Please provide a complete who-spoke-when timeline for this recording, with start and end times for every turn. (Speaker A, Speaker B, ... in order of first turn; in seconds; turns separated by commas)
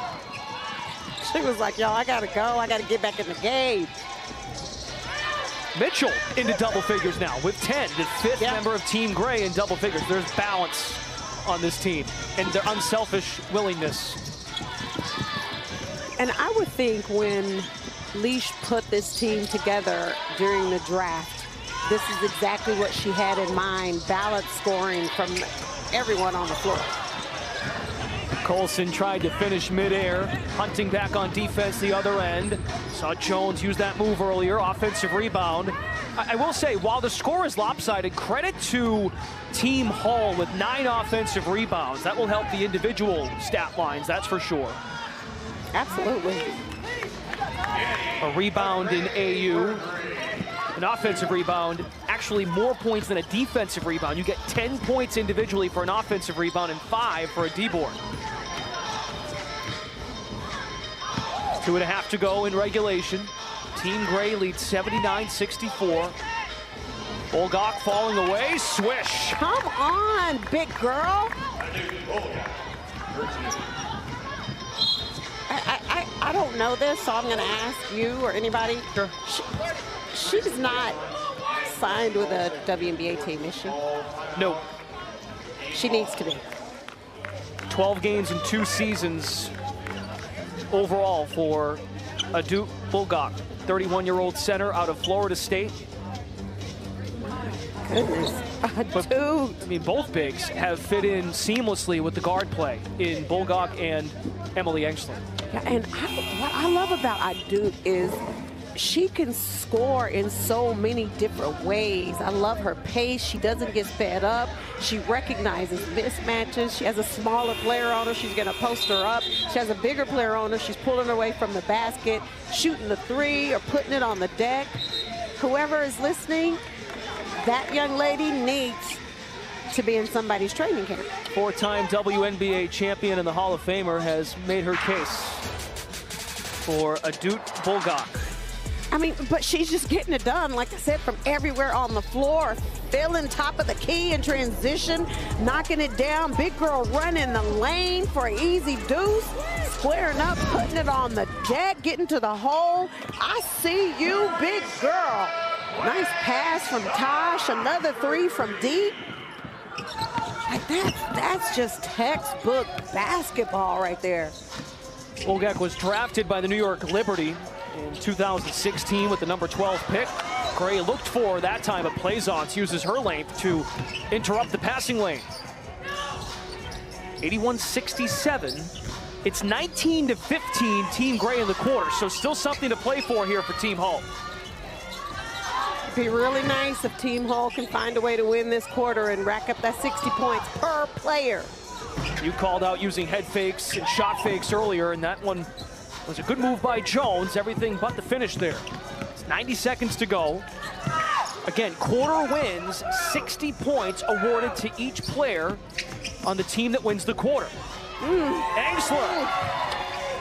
Speaker A: 1.2-3.9, Speaker B: 5.8-14.2, Speaker A: 16.2-27.0, Speaker B: 28.4-44.8, Speaker A: 45.7-46.5, Speaker B: 48.2-49.9, Speaker B: 50.7-58.0, Speaker B: 61.6-66.2, Speaker B: 67.3-69.4, Speaker A: 69.4-71.4, Speaker A: 75.5-79.5, Speaker A: 80.1-83.8, Speaker B: 84.3-84.6, Speaker A: 85.7-86.5, Speaker B: 87.7-89.5, Speaker B: 90.7-95.8, Speaker A: 97.8-99.6, Speaker B: 98.9-105.2, Speaker A: 105.5-108.2, Speaker A: 108.7-124.8, Speaker A: 125.4-126.6, Speaker A: 127.4-129.0, Speaker A: 129.7-131.1, Speaker B: 131.3-135.4, Speaker B: 136.7-138.2, Speaker A: 138.9-159.0, Speaker A: 160.5-164.3, Speaker B: 165.2-175.3, Speaker B: 177.2-178.7, Speaker B: 179.2-184.1, Speaker A: 185.9-191.5, Speaker B: 192.2-195.5, Speaker B: 196.1-200.5, Speaker B: 201.5-205.6, Speaker B: 206.2-207.6, Speaker A: 208.0-208.6, Speaker B: 208.5-209.3